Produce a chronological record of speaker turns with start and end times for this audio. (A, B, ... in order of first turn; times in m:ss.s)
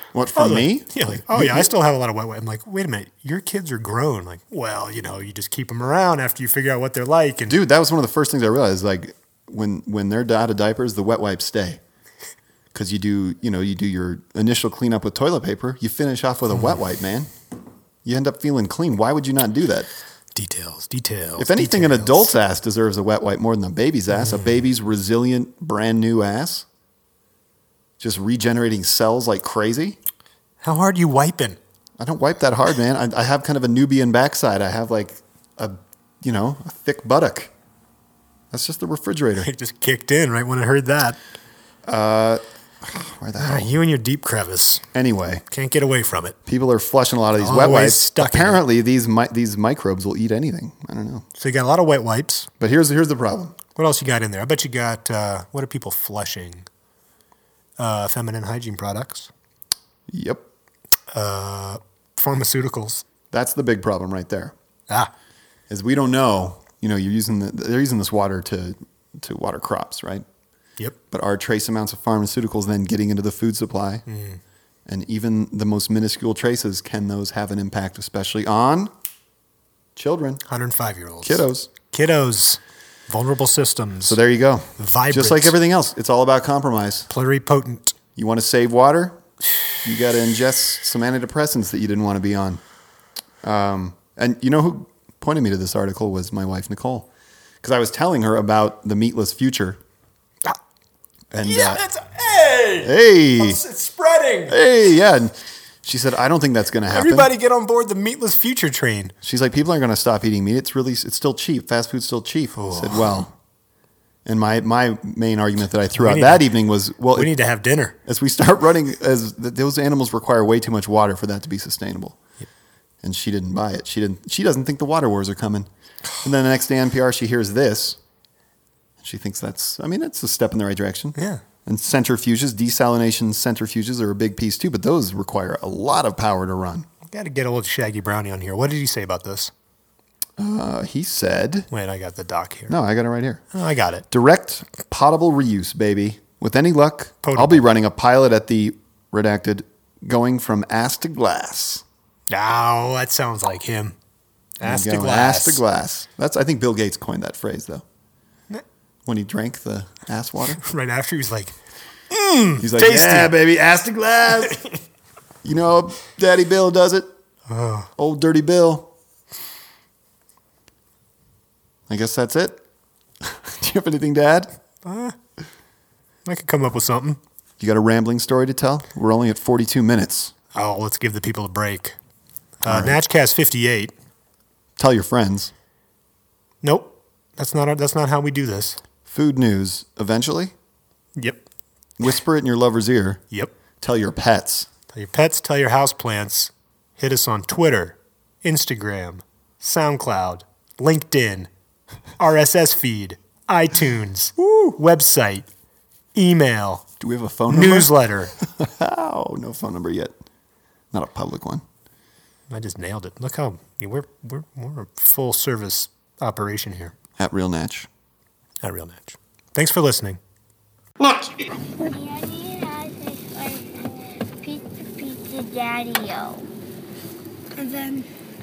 0:00.1-0:01.7 A
0:00.3-0:07.6 B
0:07.5-0:11.8 A
0:12.7-0:17.3 A
0:18.0-0:19.9 A
0:20.3-0:22.3 B
0:21.4-0:26.6 A
0:24.1-0:24.5 B
0:28.0-0:30.0 A
0:30.6-0:31.6 B
0:32.0-0:37.5 A
0:38.5-0:39.5 A
0:39.4-0:41.2 B
0:41.8-0:43.7 A
0:43.4-0:44.8 B
0:44.9-0:45.4 A
0:45.5-0:46.4 B
0:46.4-0:51.2 A
0:47.4-0:48.6 B
0:51.4-0:52.5 B
0:52.6-0:53.6 A
0:53.8-0:56.6 B
0:57.8-0:59.3 B
1:00.1-1:00.4 A
1:01.1-1:03.0 B
1:03.3-1:04.5 A
1:05.7-1:10.2 A
1:11.1-1:14.0 A
1:14.1-1:14.4 B
1:14.8-1:18.9 A
1:19.9-1:20.4 A
1:20.4-1:24.2 B
1:21.2-1:21.7 A
1:24.0-1:27.1 A
1:24.8-1:25.6 B
1:27.1-1:28.0 B
1:28.2-1:29.2 A
1:29.8-1:32.6 A
1:33.4-1:37.1 A
1:37.6-1:39.8 A
1:41.3-1:41.8 A
1:41.4-1:44.6 B
1:42.8-1:43.6 A
1:44.5-1:47.3 A
1:46.9-1:49.1 B
1:49.2-1:53.3 A
1:52.5-1:53.1 B
1:54.2-1:57.3 A
1:56.0-1:56.5 B
1:57.1-1:58.0 B
1:58.0-2:02.2 A
2:03.0-2:05.7 A
2:06.2-2:08.0 A
2:09.0-2:16.9 A
2:11.2-2:11.4 B
2:17.1-2:19.5 B
2:20.4-2:21.7 A
2:21.7-2:22.7 B
2:22.7-2:23.4 A
2:23.5-2:24.0 B
2:24.1-2:31.8 A
2:27.2-2:27.6 B
2:32.3-2:33.9 B
2:34.6-2:35.6 B
2:34.6-2:37.8 A
2:39.0-2:40.6 A
2:40.6-2:41.6 B
2:42.1-2:43.4 B
2:42.6-2:44.6 A
2:44.5-2:44.8 B
2:45.4-2:47.1 A
2:47.5-2:47.9 B
2:48.0-2:48.9 A
2:51.9-2:52.6 A
2:53.2-2:54.6 A
2:54.8-2:55.2 B
2:56.2-2:57.2 B
2:57.6-3:00.3 A
3:00.5-3:02.0 B
3:02.6-3:03.9 B
3:02.6-3:03.0 A
3:04.8-3:05.5 A
3:06.6-3:08.8 B
3:09.0-3:10.5 A
3:11.2-3:11.4 B
3:12.0-3:13.2 A
3:13.8-3:14.7 A
3:14.9-3:21.5 B
3:22.2-3:25.5 B
3:24.4-3:24.8 A
3:26.1-3:26.8 B
3:27.0-3:30.1 A
3:27.5-3:28.3 B
3:30.9-3:31.6 A
3:32.5-3:36.9 B
3:37.2-3:37.9 A
3:38.6-3:40.2 B
3:41.6-3:46.5 C
3:47.5-3:48.1 C